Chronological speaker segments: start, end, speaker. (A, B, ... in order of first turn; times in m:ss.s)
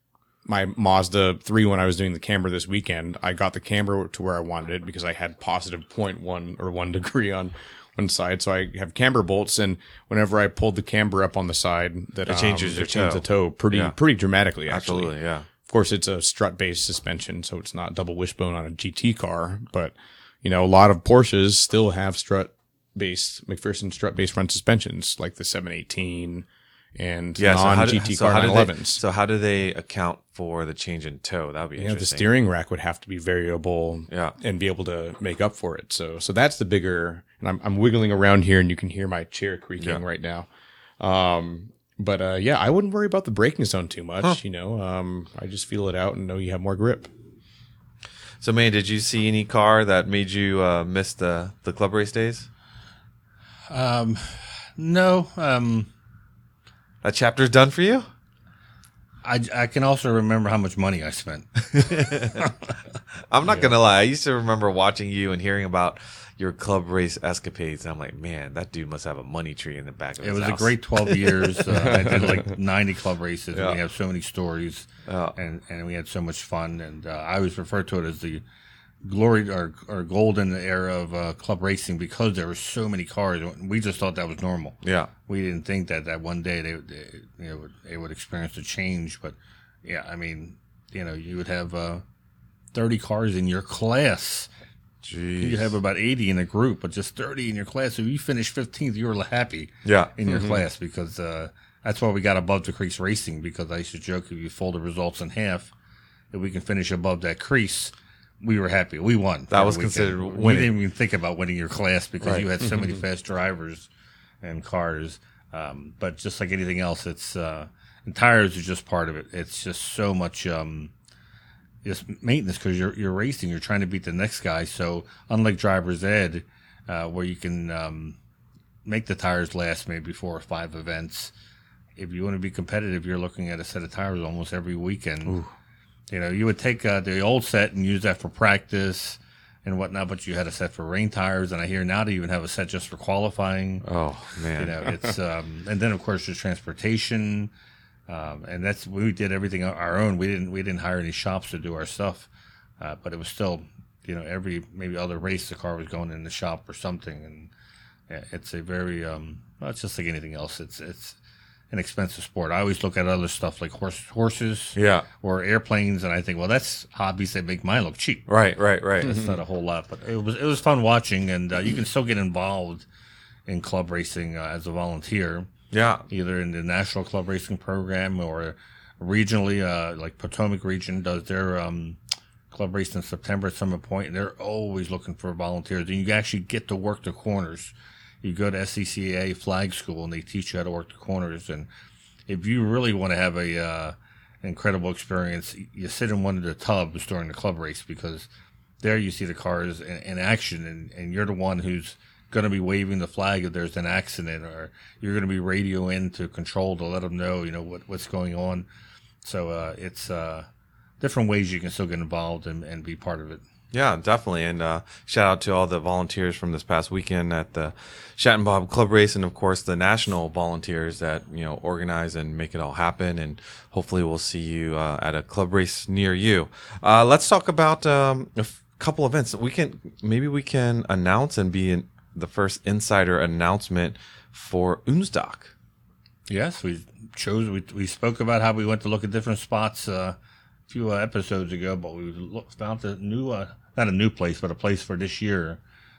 0:00.5-0:29.0 A
0:12.3-0:14.0 B
0:14.7-0:15.5 B
0:27.4-0:32.3 B
0:31.8-0:40.5 A
0:34.1-0:34.4 B
0:41.0-0:47.1 A
0:48.4-0:52.5 B
0:53.7-0:55.9 C
0:57.0-0:58.1 B
0:59.2-1:02.6 C
1:01.8-1:02.5 B
1:03.3-1:12.2 B
1:10.2-1:18.4 C
1:13.5-1:13.8 B
1:15.1-1:15.4 B
1:19.0-1:32.0 C
1:24.8-1:25.1 B
1:32.7-1:34.5 C
1:35.0-1:35.8 B
1:35.4-1:45.7 C
1:39.8-1:40.1 B
1:46.3-1:53.9 C
1:49.5-1:50.7 B
1:52.2-1:52.5 B
1:54.4-2:00.9 C
2:01.8-2:08.2 C
2:08.8-2:11.3 C
2:12.0-2:15.4 C
2:15.2-2:15.5 B
2:16.1-2:23.8 C
2:23.8-2:24.9 B
2:24.6-2:27.5 C
2:28.1-2:32.3 C
2:32.8-2:37.5 C
2:38.1-2:41.2 C
2:41.7-2:48.3 C
2:44.8-2:45.1 B
2:48.3-2:49.2 B
2:49.0-2:52.8 C
2:53.5-2:55.5 C
2:55.7-2:56.1 B
2:56.1-3:02.0 C
3:02.5-3:11.7 C
3:12.3-3:18.3 C
3:18.8-3:28.7 C
3:29.2-3:30.5 C
3:31.0-3:33.4 C
3:33.7-3:55.5 B
3:56.3-4:00.2 C
4:00.7-4:05.6 C